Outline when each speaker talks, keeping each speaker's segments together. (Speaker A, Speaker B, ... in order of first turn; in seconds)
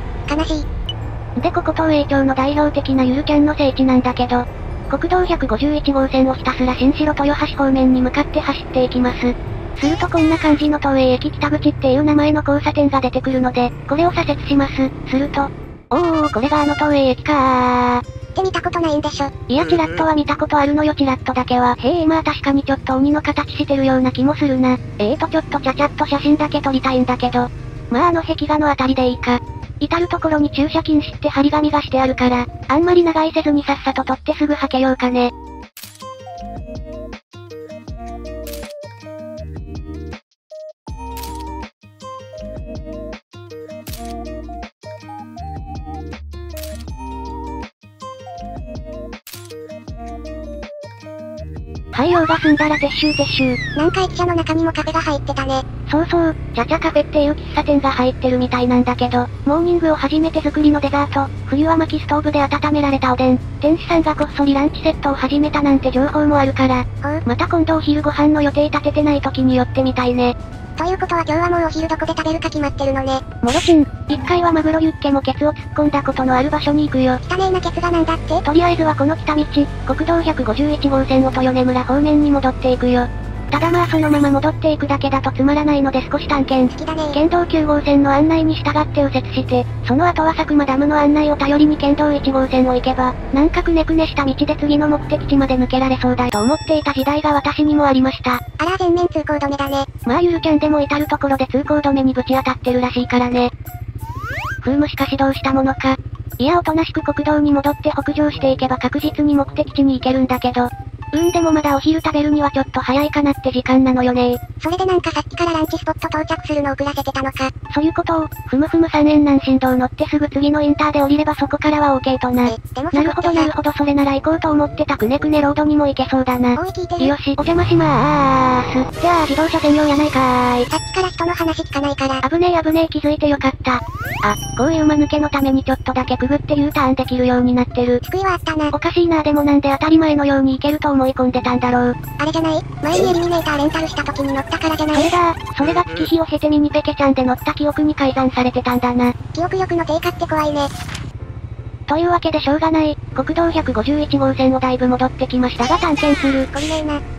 Speaker A: 0.3-0.7, 18.3-19.3, 53.8-55.6, 70.8-73.2, 77.2-78.4, 86.8-87.2, 98.6-99.9, 114.6-117.5, 122.4-123.5, 126.5-127.1, 130.7-132.2, 138.1-138.7, 142.2-145.1, 149.3-150.7, 156.5-157.0
Speaker B: 1.4-18.0, 19.5-35.3, 51.9-53.6, 55.9-70.3, 73.4-77.2, 78.4-98.4, 100.0-103.5, 104.6-114.4, 117.7-130.7, 132.2-138.0, 138.7-142.0, 144.9-149.1, 151.9-156.5